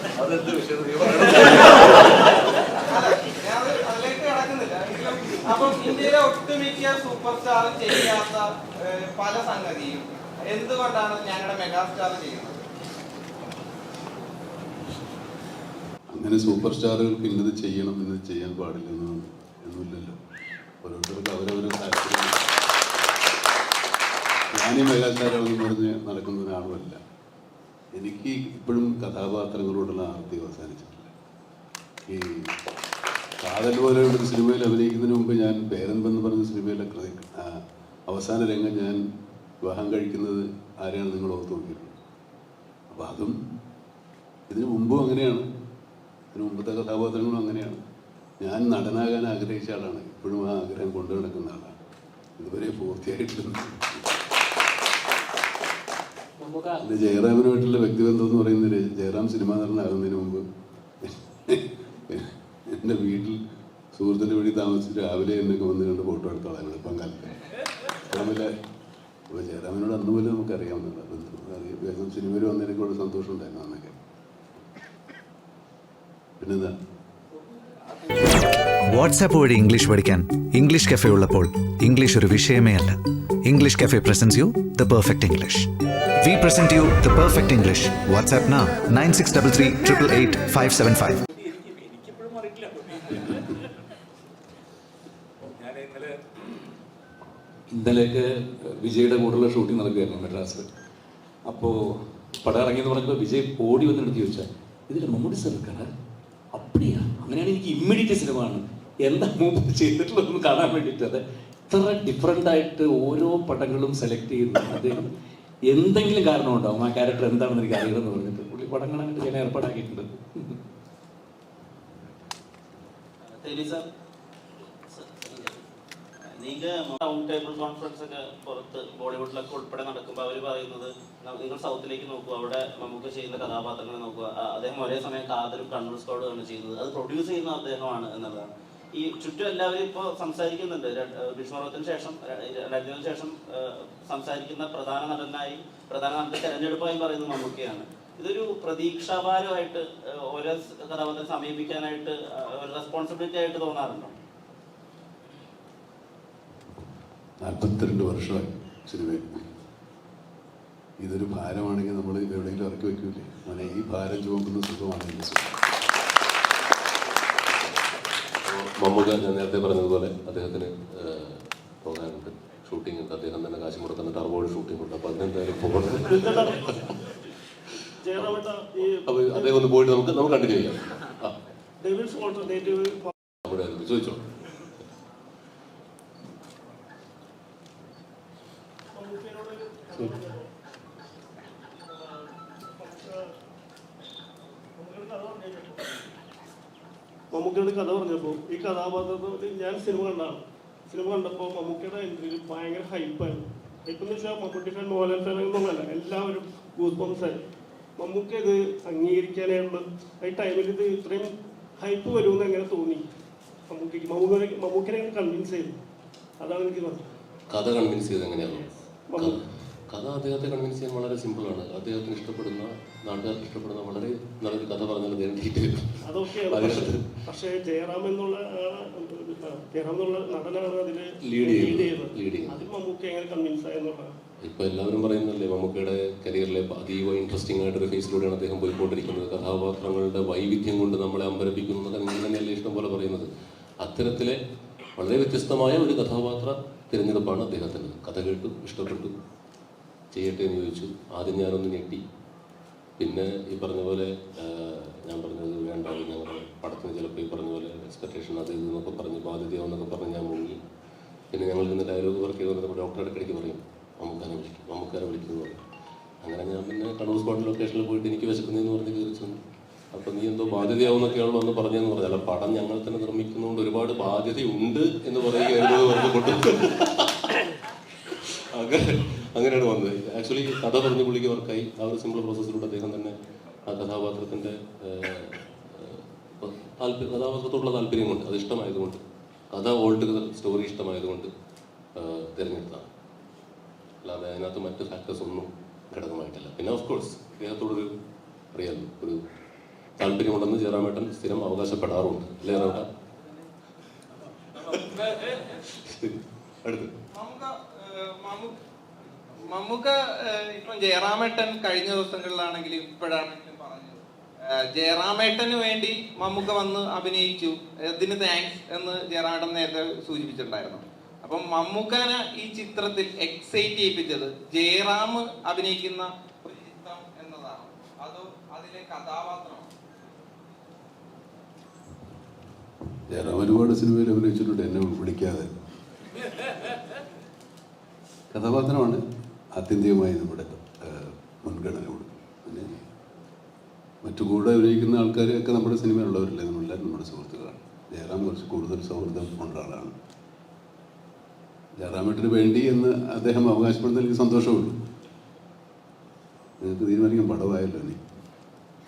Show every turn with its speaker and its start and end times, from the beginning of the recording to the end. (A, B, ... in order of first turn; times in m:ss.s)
0:01.0-0:02.3 A
0:02.9-0:12.6 A
0:16.1-0:20.2 B
0:20.8-0:22.5 B
0:24.5-0:27.0 B
0:28.0-0:31.1 B
0:32.1-0:32.5 B
0:33.4-0:39.0 B
0:39.6-0:41.9 B
0:42.9-0:43.4 B
0:44.5-0:45.5 B
0:46.3-0:47.8 B
0:48.4-0:51.7 B
0:52.4-0:54.1 B
0:56.8-1:00.4 B
1:01.0-1:03.4 B
1:03.9-1:07.4 B
1:08.1-1:08.5 B
1:09.3-1:14.0 B
1:16.4-1:16.7 B
1:18.3-1:31.2 C
1:31.4-1:33.3 D
1:35.6-1:36.1 D
1:37.7-1:40.7 D
1:41.5-1:41.8 D
1:42.4-1:45.9 D
1:46.5-1:55.1 D
1:55.7-2:00.1 D
2:03.4-2:03.9 E
2:04.9-2:05.6 E
2:06.4-2:34.1 E
2:37.4-2:39.2 B
2:41.0-2:45.6 B
2:48.5-2:57.2 F
2:56.1-2:56.7 G
2:58.0-2:59.6 G
2:58.2-2:58.4 F
2:59.0-3:01.4 F
3:01.8-3:03.1 G
3:03.5-3:04.2 F
3:08.9-3:10.5 G
3:11.8-3:13.3 G
3:14.8-3:16.1 G
3:17.3-3:27.4 G
3:28.0-3:33.1 G
3:33.7-3:35.8 G
3:36.4-3:37.1 G
3:37.5-3:39.4 F
3:38.5-3:39.4 G
3:39.9-3:47.0 F
3:46.0-3:54.1 G
3:51.3-3:52.7 F
3:54.4-4:03.3 F
4:03.8-4:04.4 F
4:05.0-4:09.1 F
4:10.1-4:12.0 F
4:13.0-4:20.6 F
4:21.3-4:25.6 F
4:26.2-4:29.4 F
4:29.9-4:37.3 F
4:38.6-4:43.2 F
4:43.7-4:49.0 F
4:49.5-4:51.3 F
4:52.0-4:52.9 F
4:54.0-4:57.9 F
4:58.5-4:59.2 F
5:00.0-5:02.9 F
5:04.6-5:06.9 F
5:07.1-5:08.6 A
5:09.4-5:14.0 A
5:14.8-5:29.7 A
5:33.1-5:35.5 B
5:38.3-5:39.0 B
5:39.6-5:42.7 B
5:44.0-5:49.9 B
5:51.8-5:54.7 B
5:56.6-5:58.0 B